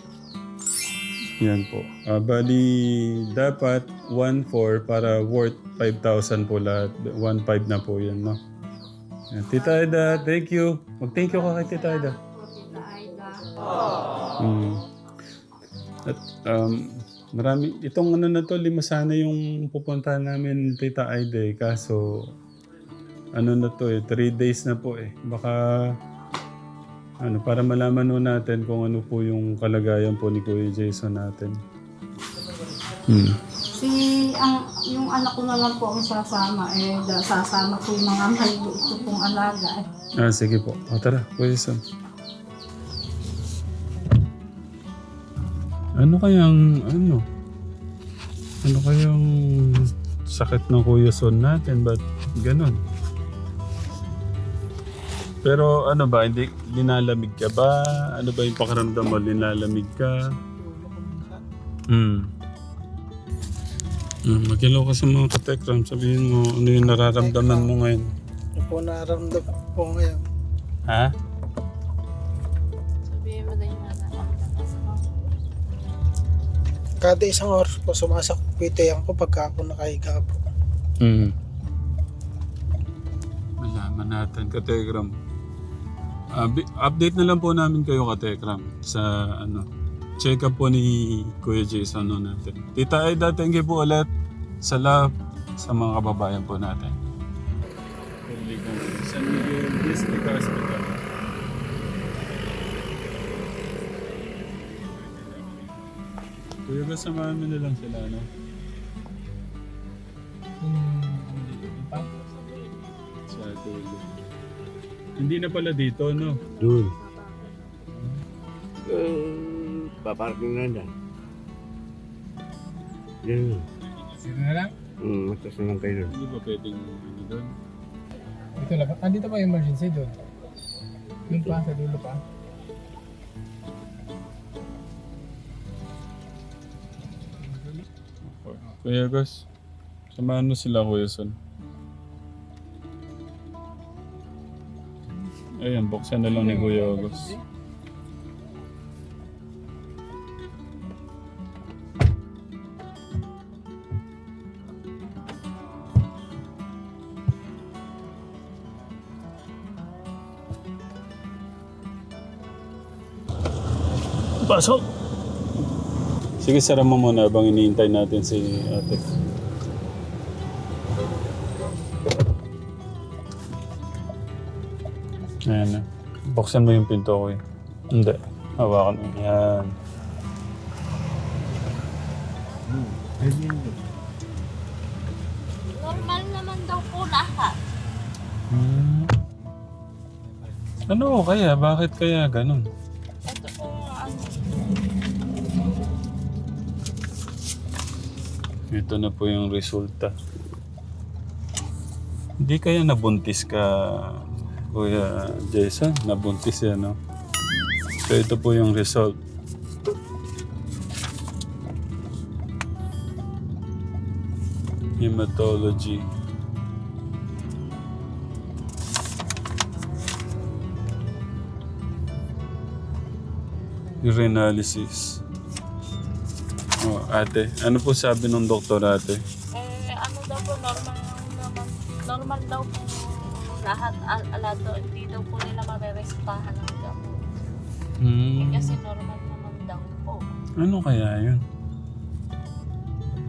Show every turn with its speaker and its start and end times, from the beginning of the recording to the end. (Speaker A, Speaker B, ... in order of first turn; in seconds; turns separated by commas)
Speaker A: 1.4-8.4, Speaker A: 9.3-12.2, Speaker B: 9.5-10.3, Speaker B: 11.2-13.4, Speaker A: 14.4-14.8, Speaker A: 16.1-22.3, Speaker A: 23.4-25.9, Speaker A: 27.2-31.6, Speaker A: 33.1-33.4, Speaker B: 33.8-39.9, Speaker A: 40.2-41.8, Speaker A: 46.0-47.2, Speaker A: 48.6-52.8, Speaker A: 55.4-60.3, Speaker C: 60.4-61.4, Speaker A: 61.9-62.3, Speaker A: 64.3-68.1, Speaker C: 66.9-67.7, Speaker C: 68.5-70.2, Speaker D: 73.0-75.0, Speaker C: 77.0-80.4, Speaker A: 81.0-81.3, Speaker A: 83.6-85.1, Speaker A: 86.3-89.7, Speaker A: 90.2-94.1, Speaker A: 94.6-96.9, Speaker A: 98.2-101.0, Speaker A: 105.0-105.6, Speaker A: 106.7-108.3, Speaker E: 110.6-112.0, Speaker A: 111.4-112.1, Speaker A: 113.3-114.1, Speaker A: 115.2-116.4, Speaker D: 116.3-117.7, Speaker F: 116.6-117.0, Speaker F: 118.9-120.9, Speaker F: 123.2-123.6, Speaker E: 124.2-124.7, Speaker F: 125.0-126.1, Speaker A: 126.1-127.5, Speaker E: 128.6-130.2, Speaker E: 131.3-132.2, Speaker A: 138.2-139.4, Speaker A: 140.1-141.3, Speaker A: 145.6-147.3, Speaker F: 146.3-147.2, Speaker A: 164.4-164.8, Speaker A: 166.4-169.0, Speaker A: 175.5-177.4, Speaker A: 177.9-179.7, Speaker F: 182.7-183.8, Speaker D: 185.7-187.6, Speaker A: 188.5-189.1, Speaker A: 190.9-192.6, Speaker D: 193.3-194.6, Speaker A: 198.7-200.1, Speaker A: 202.4-207.0, Speaker A: 208.1-209.2, Speaker A: 215.0-216.0, Speaker A: 224.0-225.2, Speaker A: 226.8-229.2, Speaker D: 229.5-237.2, Speaker A: 238.0-238.8, Speaker D: 238.4-240.2, Speaker A: 240.6-241.4